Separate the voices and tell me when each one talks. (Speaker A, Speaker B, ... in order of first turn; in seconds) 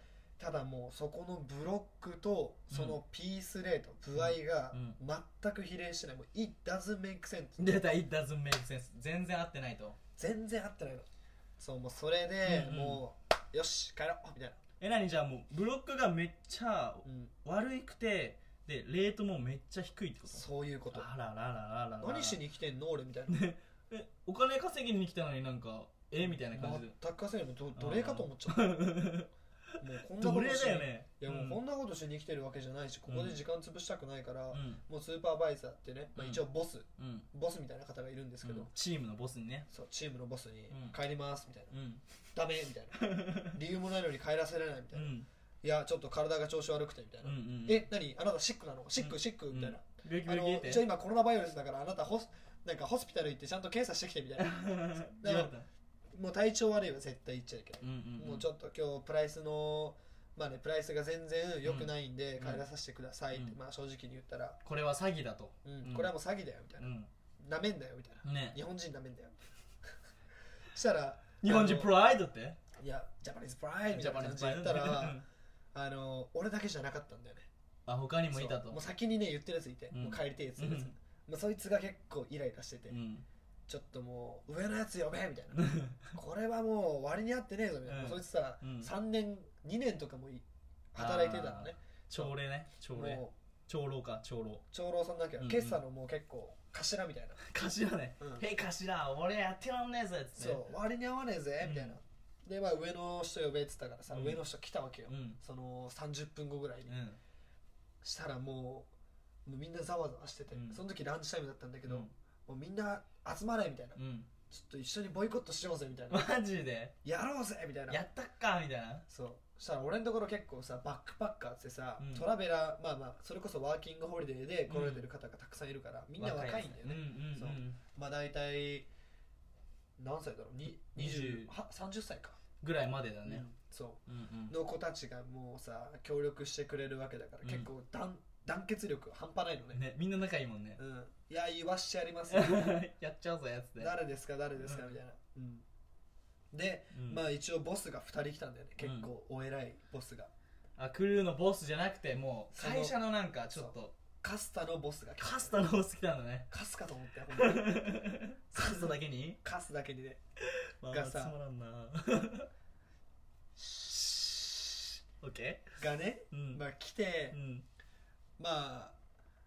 Speaker A: 0.4-7.6, 10.2-11.1, 11.6-14.6, 17.0-17.3, 20.3-21.1, 22.0-23.4, 26.2-28.8, 29.8-38.7, 39.7-41.7, 42.3-55.5, 56.1-64.6, 65.6-69.4, 70.7-71.9, 72.8-75.2, 75.7-77.5, 78.3-83.0, 83.7-92.3, 92.9-93.3, 94.7-97.4, 100.4-107.0, 108.0-108.9, 109.5-114.0, 114.5-116.2, 117.0-118.0, 119.1-128.9, 130.0-132.4, 133.2-139.8, 140.8-142.7, 143.8-145.6, 146.5-150.3, 152.5-153.0, 153.5-155.6, 156.5-157.8, 158.5-160.2, 160.9-161.3, 163.6-164.6, 165.8-167.4, 168.4-169.0
Speaker B: 2.7-3.0, 4.1-5.0, 7.6-10.0, 12.4-13.0, 14.8-22.4, 23.3-26.9, 27.8-29.3, 30.2-31.6, 33.1-33.4, 34.5-34.8, 36.1-36.4, 37.0-37.2, 38.4-39.7, 40.7-41.0, 41.7-42.0, 43.0-43.6, 44.9-45.3, 47.2-47.9, 49.0-50.9, 54.4-55.7, 57.8-58.5, 61.6-62.6, 64.6-66.1, 66.8-67.1, 68.2-68.6, 71.4-72.6, 73.9-75.2, 77.8-78.8, 79.9-80.9, 82.9-83.2, 85.5-86.0, 87.9-88.9, 91.0-94.6, 95.4-95.8, 97.4-100.7, 101.6-102.0, 104.1-104.4, 105.1-105.4, 106.9-107.2, 110.5-110.8, 111.9-112.1, 114.0-114.3, 116.1-116.9, 117.9-119.0, 122.0-122.2, 124.7-125.1, 126.2-127.8, 130.9-131.5, 132.6-133.4, 134.1-134.5, 139.7-140.8, 142.3-143.9, 144.6-145.0, 146.9-147.2, 148.8-149.1, 150.8-153.9, 155.2-156.5, 157.3-159.4, 160.8-162.5, 165.2-165.7, 166.3-166.6, 167.3-167.7